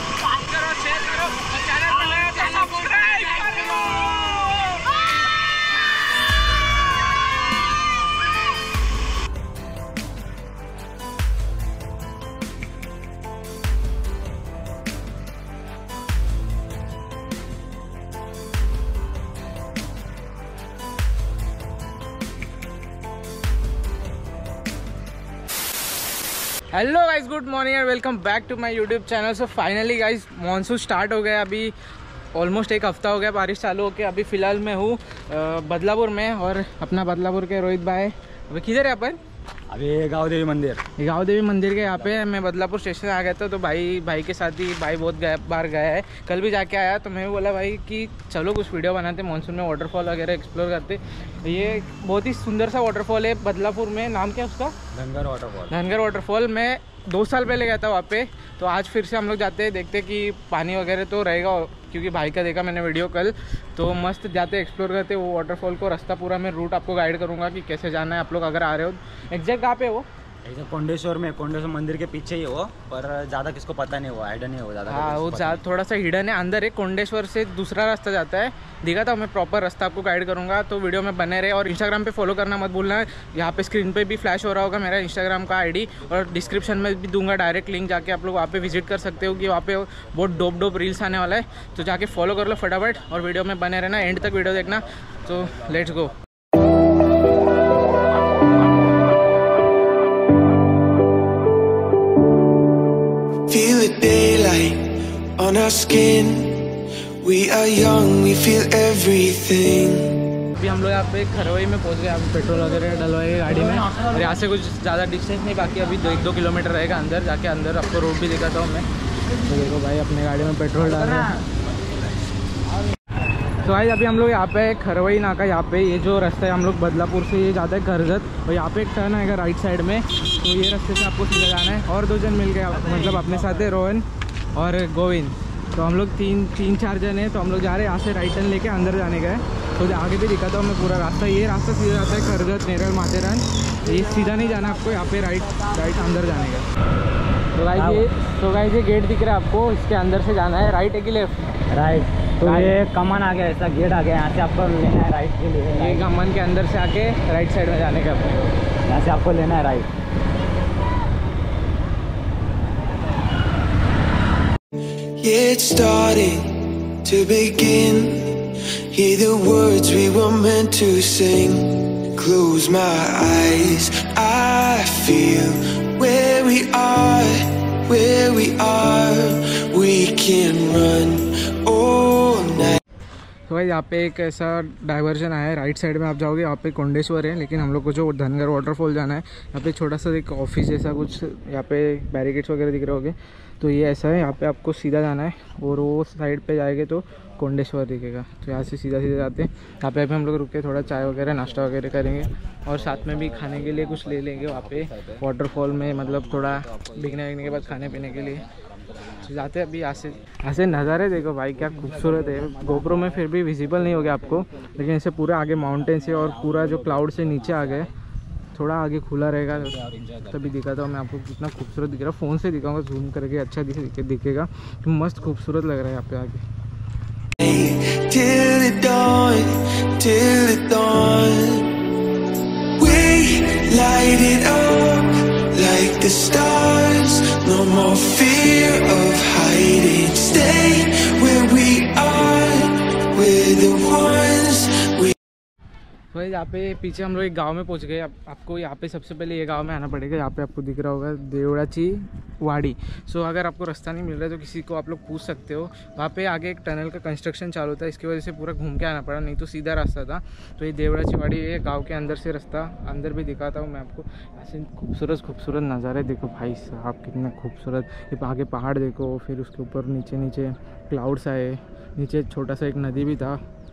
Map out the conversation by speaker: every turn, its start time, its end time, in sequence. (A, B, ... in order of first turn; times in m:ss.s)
0:00.2-0:04.8 A
0:26.7-0:31.7 A
0:32.3-0:39.2 A
0:39.7-0:40.8 B
0:41.0-0:54.8 A
0:54.9-0:55.8 B
0:55.7-1:10.0 A
1:10.4-1:15.6 B
1:14.9-1:36.1 A
1:43.5-1:46.6 C
1:47.2-1:50.2 C
1:50.6-1:58.9 A
1:53.5-1:54.4 B
1:59.4-2:01.3 A
2:00.8-2:01.4 B
2:03.6-2:26.6 A
2:12.8-2:13.7 B
2:27.5-2:31.4 A
2:27.7-2:28.0 B
2:31.7-2:36.1 B
2:32.4-2:32.8 A
2:35.8-2:38.6 A
2:38.8-2:39.9 B
2:45.2-3:02.8 C
3:03.5-3:28.4 A
3:22.8-3:29.4 B
3:29.2-3:37.9 A
3:31.7-3:33.2 B
3:35.7-3:37.9 B
3:38.5-3:46.4 A
3:39.8-3:40.2 B
3:47.4-3:51.7 C
3:52.8-4:05.1 C
4:06.1-4:33.4 A